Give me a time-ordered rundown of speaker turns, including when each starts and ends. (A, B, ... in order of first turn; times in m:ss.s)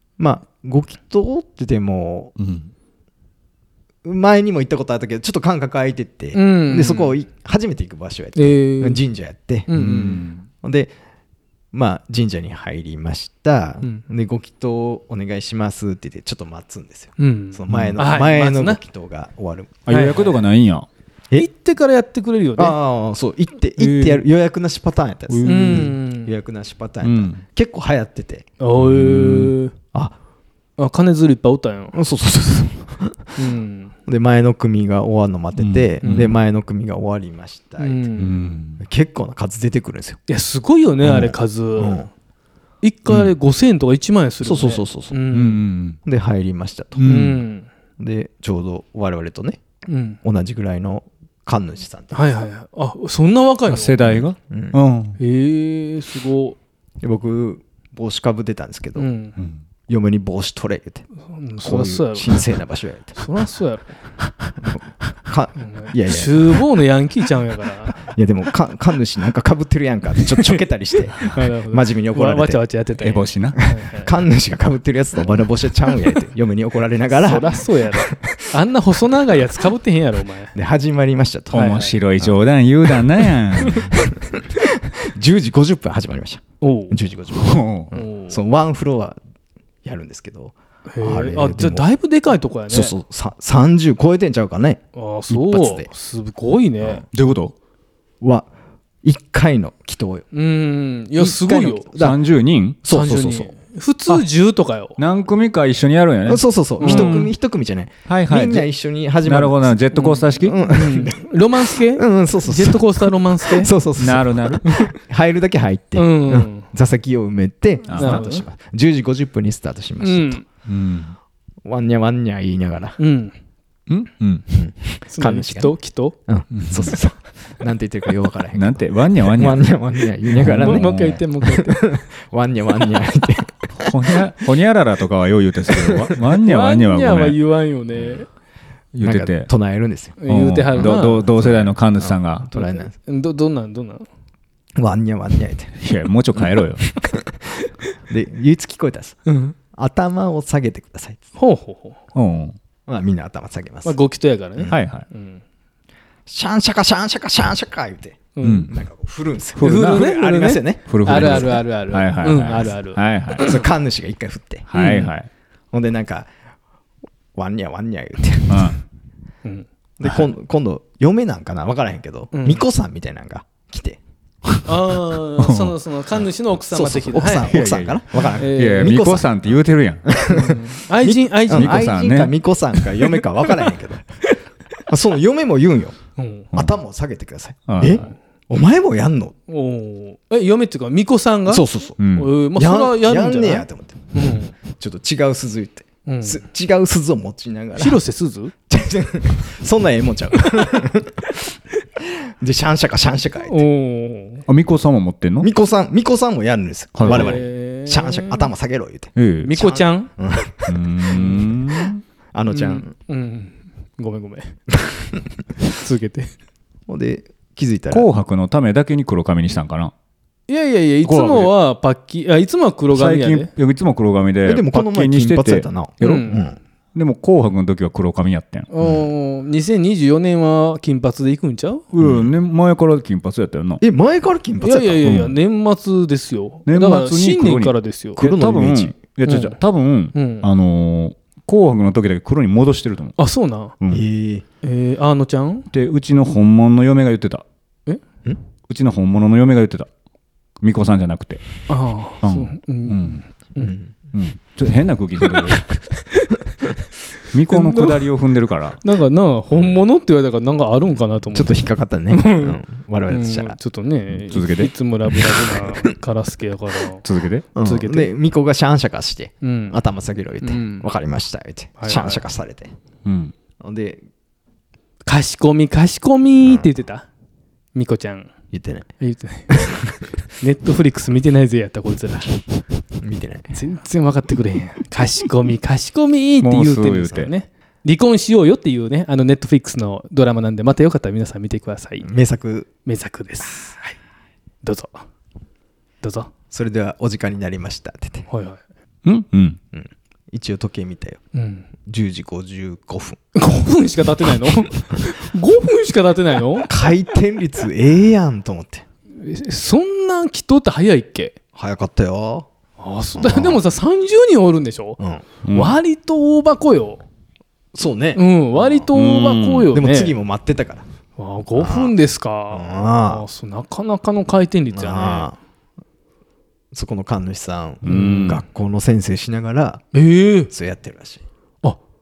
0:00.2-0:02.3 A
0:02.4-0:02.7 B
0:04.0-0:10.1 A
0:06.3-0:07.1 C
0:08.4-0:09.0 C
0:09.7-0:10.2 C
0:09.8-0:10.4 B
0:10.6-0:10.9 A
0:11.7-0:19.9 A
0:17.2-0:18.8 C
0:17.7-0:18.0 B
0:19.9-0:20.9 B
0:19.9-0:20.3 C
0:21.3-0:22.8 C
0:22.6-0:28.5 A
0:23.8-0:24.2 B
0:25.3-0:25.9 B
0:25.4-0:26.3 C
0:27.0-0:27.4 B
0:28.6-0:29.8 C
0:28.8-0:29.6 B
0:30.8-0:32.0 C
0:31.9-0:33.4 A
0:33.4-0:33.9 C
0:34.1-0:38.1 A
0:35.6-0:36.4 B
0:37.8-0:38.3 C
0:38.2-0:38.8 B
0:38.8-0:40.2 A
0:40.3-0:42.1 C
0:41.0-0:42.1 A
0:42.8-0:45.6 C
0:44.4-0:45.2 A
0:45.3-0:46.0 B
0:46.0-0:47.2 A
0:47.0-0:47.4 B
0:47.0-0:47.7 C
0:48.0-0:49.6 A
0:49.9-0:50.2 C
0:50.2-0:52.4 A
0:52.1-0:54.2 C
0:53.7-0:55.2 B
0:54.4-0:54.8 A
0:55.2-0:56.6 C
0:57.0-0:59.1 A
0:59.0-0:59.4 C
0:59.9-1:01.1 A
1:01.3-1:02.4 C
1:01.6-1:03.2 A
1:03.2-1:04.0 C
1:04.6-1:06.6 A
1:05.6-1:08.0 C
1:08.0-1:12.6 A
1:11.2-1:14.1 C
1:13.0-1:13.6 B
1:13.9-1:18.5 A
1:17.1-1:20.5 C
1:20.5-1:21.7 A
1:21.5-1:23.9 B
1:21.5-1:22.0 C
1:23.6-1:29.2 A
1:26.6-1:27.0 C
1:27.3-1:27.9 B
1:27.9-1:28.4 C
1:29.8-1:31.9 A
1:30.9-1:33.0 C
1:32.7-1:35.9 A
1:35.0-1:37.0 C
1:37.1-1:37.5 B
1:38.2-1:38.5 A
1:39.0-1:40.2 A
1:40.3-1:41.9 C
1:41.2-1:42.2 A
1:42.0-1:42.8 B
1:42.8-1:43.5 A
1:42.9-1:45.0 C
1:45.0-1:47.3 B
1:46.3-1:49.8 A
1:46.8-1:47.3 C
1:48.1-1:48.7 B
1:49.2-1:50.6 B
1:49.9-1:53.7 C
1:50.4-2:00.4 A
1:54.0-1:54.8 B
1:56.0-1:56.7 C
1:57.9-1:58.2 B
1:58.0-1:58.4 C
2:00.0-2:00.4 C
2:00.7-2:01.2 B
2:01.6-2:03.0 A
2:03.0-2:03.3 C
2:03.9-2:04.4 B
2:04.5-2:05.7 A
2:05.1-2:06.2 C
2:06.3-2:13.7 A
2:06.5-2:07.0 B
2:08.5-2:09.7 B
2:10.3-2:11.2 B
2:10.6-2:11.9 C
2:13.7-2:17.4 B
2:15.7-2:16.1 A
2:16.4-2:18.3 C
2:18.9-2:19.5 B
2:19.0-2:20.2 A
2:20.2-2:21.3 C
2:20.3-2:22.5 B
2:20.8-2:22.9 A
2:22.5-2:24.0 C
2:24.8-2:25.8 A
2:25.8-2:26.9 B
2:26.4-2:27.4 A
2:28.1-2:29.2 A
2:29.3-2:29.6 C
2:29.7-2:31.3 A
2:31.4-2:32.0 C
2:32.2-2:32.6 B
2:32.9-2:34.0 A
2:33.8-2:35.4 C
2:34.7-2:35.1 B
2:36.3-2:41.6 A
2:38.4-2:38.7 C
2:38.4-2:38.7 B
2:39.6-2:40.1 B
2:39.6-2:43.0 C
2:40.9-2:43.5 B
2:43.4-2:44.7 A
2:44.7-2:45.3 B
2:44.7-2:45.1 C
2:45.7-2:46.3 A
2:47.4-2:48.7 A
2:48.5-2:48.8 B
2:50.0-2:54.0 A
2:52.3-2:52.6 C
2:54.6-2:57.6 C
2:55.4-2:55.8 B
2:56.7-3:04.0 A
2:57.5-3:00.0 B
2:58.3-2:59.0 C
3:00.3-3:02.0 C
3:01.5-3:02.4 B
3:04.9-3:06.0 A
3:06.2-3:06.5 C
3:06.5-3:09.4 A
3:07.7-3:08.0 B
3:09.5-3:14.5 C
3:11.5-3:12.0 A
3:12.0-3:12.4 B
3:12.5-3:14.1 A
3:14.7-3:18.0 A
3:16.1-3:16.4 C
3:17.8-3:18.5 C
3:18.7-3:23.6 A
3:23.5-3:24.4 C
3:24.5-3:25.5 B
3:25.4-3:31.4 A
3:27.0-3:27.4 B
3:27.1-3:28.5 C
3:29.2-3:29.5 B
3:29.4-3:30.1 C
3:30.7-3:32.0 B
3:31.1-3:31.5 C
3:32.3-3:32.9 A
3:32.5-3:34.6 C
3:35.6-3:36.3 C
3:36.9-3:38.1 A
3:37.9-3:39.9 B
3:40.5-3:43.5 C
3:41.0-3:41.6 B
3:42.9-3:46.4 B
3:44.4-3:46.6 A
3:46.0-3:46.5 C
3:47.0-3:48.7 B
3:48.7-3:51.9 C
3:51.9-3:53.8 B
3:52.0-3:52.3 A
3:53.8-3:55.1 A
3:54.6-3:58.2 C
3:55.0-3:55.4 B
3:56.7-4:03.2 B
3:58.2-3:59.0 A
3:59.3-3:59.6 C
4:00.1-4:00.5 C
4:03.2-4:03.8 C
4:03.9-4:04.4 A
4:04.6-4:05.7 C
4:05.7-4:07.4 B
4:08.7-4:09.9 B
4:10.6-4:11.4 B
4:11.7-4:13.8 C
4:12.2-4:13.2 B
4:13.6-4:13.9 A
4:14.1-4:15.7 B
4:17.3-4:18.8 B
4:17.5-4:18.0 C
4:18.8-4:27.1 C
4:21.3-4:23.6 A
4:24.3-4:24.7 B
4:27.0-4:27.5 B
4:27.6-4:32.7 A
4:27.6-4:28.1 C
4:29.4-4:29.8 C
4:30.4-4:30.9 C
4:31.8-4:32.2 C
4:33.0-4:33.3 B
4:33.6-4:34.0 A
4:35.1-4:37.1 C
4:37.8-4:38.3 C
4:38.5-4:38.9 A
4:39.0-4:39.7 C
4:39.5-4:40.0 A
4:40.4-4:42.4 C
4:43.0-4:43.5 A
4:43.5-4:52.1 C
4:46.4-4:47.3 B
4:52.0-4:52.7 A
4:52.8-4:53.9 C
4:54.6-4:55.0 C
4:56.0-4:56.3 C
4:56.5-4:58.3 A
4:58.3-4:58.6 C
4:59.0-4:59.6 B
4:59.7-5:01.2 A
5:01.3-5:01.7 C
5:01.8-5:03.2 A
5:03.4-5:06.7 C
5:06.6-5:08.8 A
5:09.2-5:11.4 C
5:11.5-5:12.5 A
5:12.8-5:15.0 C
5:13.2-5:13.6 A
5:15.0-5:15.2 A
5:15.4-5:15.8 B
5:15.5-5:17.0 C
5:17.7-5:18.9 A
5:18.2-5:20.2 C
5:18.9-5:19.7 B
5:19.7-5:20.8 A
5:21.2-5:25.3 C
5:21.6-5:21.9 A
5:22.5-5:23.2 A
5:24.7-5:25.4 A
5:26.7-5:29.8 A
5:27.8-5:28.4 B
5:27.9-5:28.2 C
5:29.9-5:30.5 C
5:30.5-5:31.2 A